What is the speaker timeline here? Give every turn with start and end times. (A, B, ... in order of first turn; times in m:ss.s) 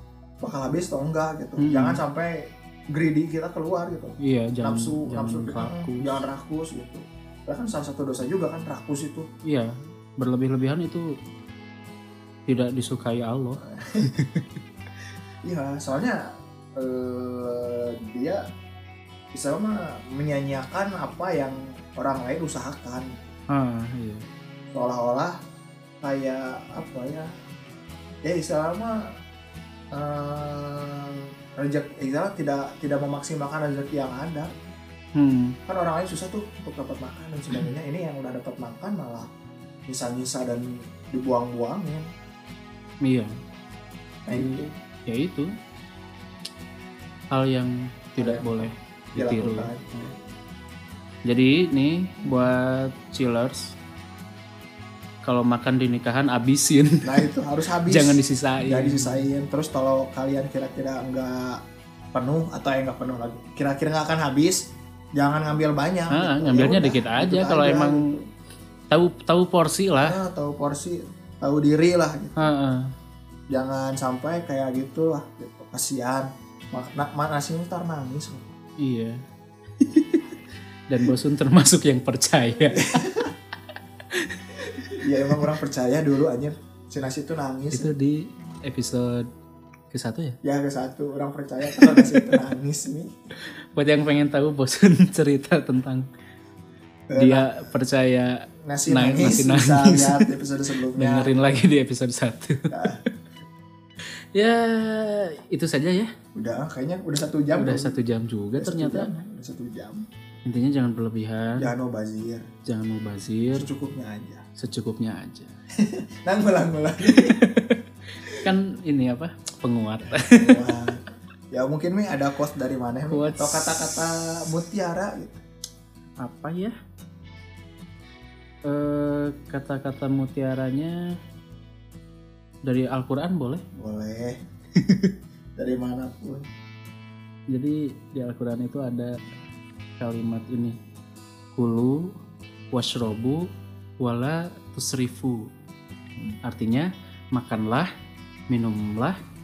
0:00.4-0:09.3 A
0:01.6-0:02.0 B
0:04.2-0:06.2 B
0:09.4-0:11.2 B
0:12.5-0:14.5 B
0:13.6-0:14.2 A
0:15.4-0:16.2 A
0:16.8-0:18.4 A
0:19.3-0:23.1 A
0:23.5-0:24.2 B
0:24.7-0:25.4 A
0:26.0-0:27.3 A
0:28.2-0:29.0 A
0:29.9-0:34.5 A
0:35.2-0:35.6 B
0:35.7-0:39.3 A
0:39.9-0:42.1 A
0:43.0-0:43.3 B
0:44.2-0:44.7 A
0:44.4-0:45.5 B
0:47.3-0:50.1 B
0:48.2-0:49.9 A
0:51.3-0:53.8 B
0:55.2-0:57.3 B
0:57.0-1:01.6 A
0:57.9-0:59.2 B
1:02.1-1:08.2 A
1:06.1-1:08.2 B
1:08.9-1:10.2 B
1:10.0-1:12.5 A
1:12.4-1:12.9 B
1:13.5-1:18.5 A
1:18.8-1:19.2 B
1:19.8-1:20.4 B
1:20.9-1:23.0 B
1:22.7-1:23.3 A
1:24.1-1:25.5 B
1:24.9-1:27.9 A
1:27.7-1:29.3 B
1:29.9-1:30.4 B
1:30.4-1:33.1 A
1:31.6-1:32.4 B
1:33.4-1:36.1 B
1:37.1-1:37.5 A
1:37.2-1:40.3 B
1:38.6-1:41.6 A
1:40.8-1:43.1 B
1:42.7-1:43.0 A
1:44.3-1:46.1 B
1:46.4-1:48.0 A
1:47.6-1:49.1 B
1:48.6-1:50.0 A
1:50.4-1:51.7 B
1:51.6-1:52.5 A
1:52.6-1:53.7 B
1:53.5-1:54.4 A
1:54.6-1:55.6 B
1:55.8-1:57.4 A
1:57.0-2:00.7 B
2:00.0-2:05.4 A
2:03.1-2:03.9 B
2:06.2-2:06.7 B
2:08.6-2:11.0 B
2:12.6-2:13.6 B
2:13.8-2:14.4 A
2:14.8-2:15.1 B
2:15.6-2:16.5 A
2:17.5-2:19.1 B
2:20.0-2:20.8 B
2:21.6-2:22.1 B
2:22.7-2:23.5 B
2:24.0-2:25.5 B
2:26.4-2:27.9 B
2:28.5-2:29.2 B